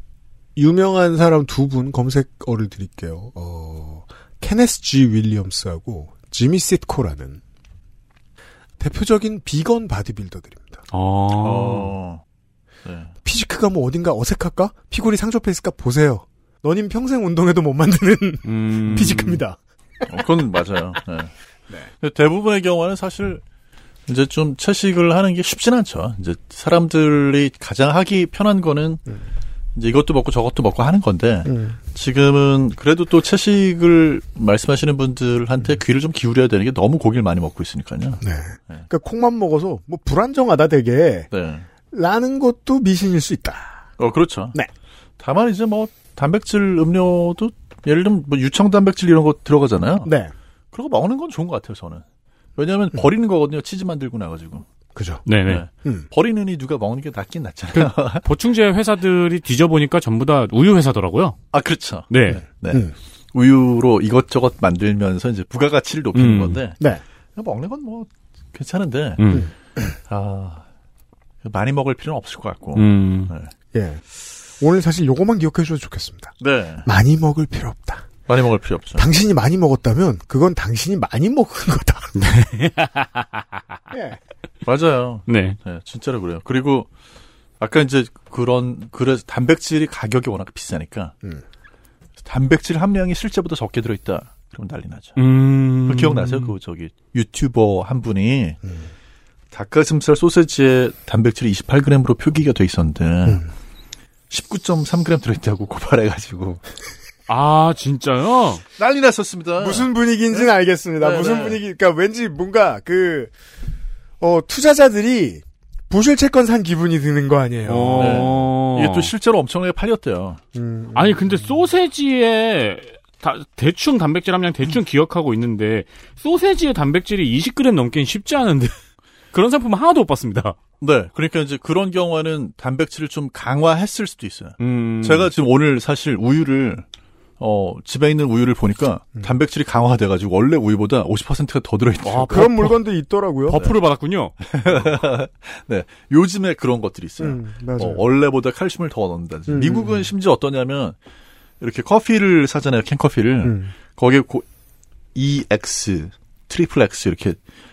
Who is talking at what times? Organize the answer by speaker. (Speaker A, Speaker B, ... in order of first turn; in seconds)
Speaker A: 0.6-7.4, 8.8-10.8, 13.2-20.1, 31.4-31.8, 38.2-41.3, 41.9-43.9, 50.0-50.3, 54.9-55.2, 69.3-69.8, 73.7-78.1, 79.0-82.1, 83.9-84.2, 109.6-113.3, 114.2-118.3, 120.5-121.5, 142.3-143.6, 147.2-148.0, 149.5-150.1, 153.4-153.7
Speaker B: 10.9-11.9, 18.4-19.4, 55.2-55.6, 57.7-61.4, 62.1-62.4, 66.1-66.6, 69.2-69.5, 72.7-73.3, 82.1-83.4, 85.3-85.6, 95.2-96.5, 107.3-108.6, 117.6-119.1, 120.9-128.8, 129.3-130.6, 134.6-135.3, 142.0-142.7, 143.5-144.3
Speaker C: 11.4-12.2, 12.8-13.1, 18.9-19.2, 20.1-21.3, 22.0-23.4, 24.1-29.0, 29.7-38.8, 41.3-41.7, 44.0-44.6, 45.2-50.1, 50.7-52.0, 52.6-54.6, 55.5-58.3, 61.5-66.8, 67.3-69.3, 70.1-70.7, 71.4-73.5, 76.4-76.9, 78.3-79.1, 84.6-86.9, 87.6-91.1, 92.2-95.2, 95.8-98.6, 99.5-103.4, 104.3-106.6, 108.8-111.6, 118.0-120.4, 130.8-136.8, 137.4-142.7, 143.5-143.8, 144.4-151.0, 151.6-154.4, 155.1-157.4